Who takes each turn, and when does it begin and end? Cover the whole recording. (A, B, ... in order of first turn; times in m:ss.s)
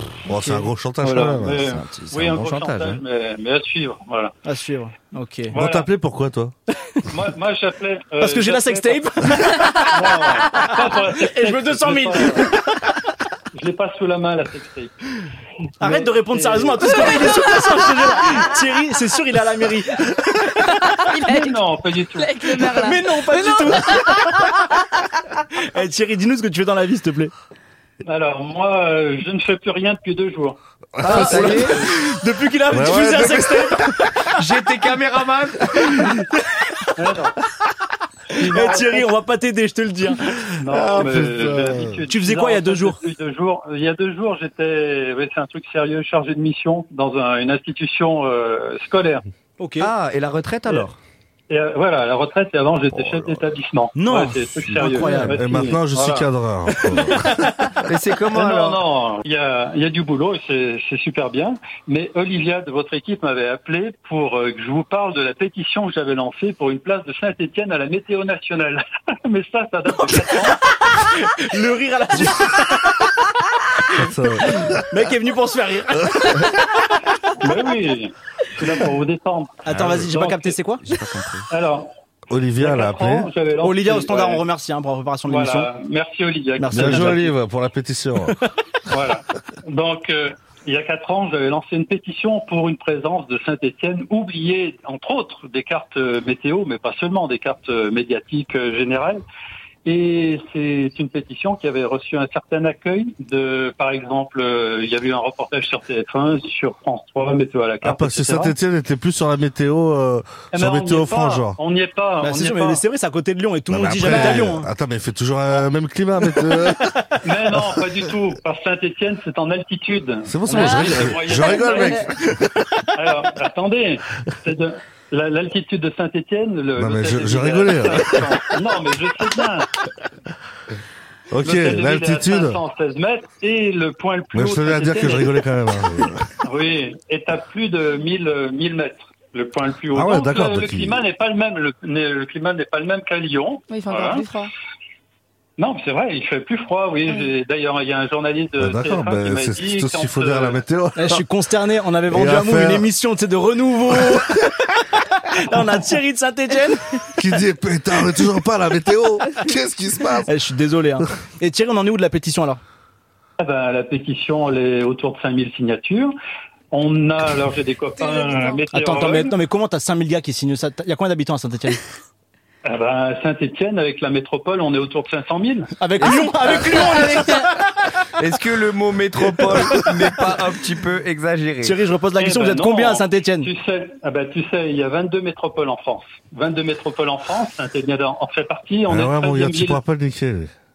0:00.2-0:01.7 A
0:00.3-0:00.7 B
0:01.0-0:04.3 C
0:01.4-0:03.0 D
0:04.4-0:05.5 B
0:05.5-0:05.9 C
0:05.5-0:06.5 A
0:06.8-0:07.2 B
0:07.1-0:12.6 C
0:08.2-0:13.0 B
0:13.5-0:14.9 C
0:15.8-0:21.0 B
0:15.8-0:17.1 C
0:16.8-0:18.4 E
0:20.7-0:24.6 E
0:21.2-0:22.6 C
0:22.5-0:24.6 B
0:25.6-0:27.3 B
0:28.0-0:30.6 C
0:31.0-0:31.7 A
0:31.0-0:31.8 D
0:31.0-0:34.2 B
0:32.7-0:33.9 A
0:34.3-0:36.1 D
0:35.8-0:36.9 B
0:37.0-0:37.4 C
0:38.4-0:39.1 C
0:38.4-0:41.0 B
0:40.6-0:49.2 C
0:40.7-0:42.0 A
0:42.0-0:43.0 B
0:49.6-0:49.9 B
0:49.8-0:51.0 D
0:51.5-0:56.3 C
0:53.0-0:53.3 A
0:53.9-0:55.6 B
0:55.2-0:57.3 A
0:56.8-0:57.5 B
0:57.8-0:58.8 D
0:58.3-1:10.6 C
1:10.1-1:13.2 B
1:13.8-1:16.9 B
1:14.0-1:14.8 A
1:17.4-1:20.6 C
1:19.7-1:20.8 B
1:19.7-1:20.2 D
1:20.8-1:21.5 D
1:21.5-1:21.9 C
1:22.3-1:23.3 A
1:22.6-1:24.4 C
1:23.6-1:25.7 B
1:25.2-1:27.3 C
1:26.6-1:27.3 B
1:26.7-1:28.4 A
1:28.9-1:39.2 C
1:39.8-1:48.6 C
1:47.8-1:51.6 A
1:50.5-1:52.8 C
1:52.2-1:54.7 B
1:53.7-1:56.8 A
1:56.4-1:57.8 B
1:57.2-2:02.1 C
2:00.2-2:02.5 A
2:00.6-2:02.0 E
2:02.9-2:09.7 C
2:06.8-2:08.4 A
2:11.3-2:12.6 A
2:11.4-2:15.5 C
2:14.3-2:16.3 A
2:16.4-2:24.3 C
2:19.9-2:21.0 A
2:23.7-2:24.5 E
2:25.6-2:30.6 C
2:28.6-2:31.2 A
2:31.0-2:37.2 B
2:32.1-2:32.9 A
2:37.2-2:40.3 A
2:40.2-2:42.6 B
2:43.4-2:46.1 C
2:46.7-2:49.4 C
2:48.0-2:48.7 E
2:48.7-2:51.8 B
2:52.6-2:55.7 C
2:55.8-2:57.6 B
2:56.0-2:57.3 D
2:58.1-3:01.8 D
2:59.4-2:59.9 B
3:01.6-3:03.5 B
3:02.1-3:09.8 C
3:08.9-3:10.5 A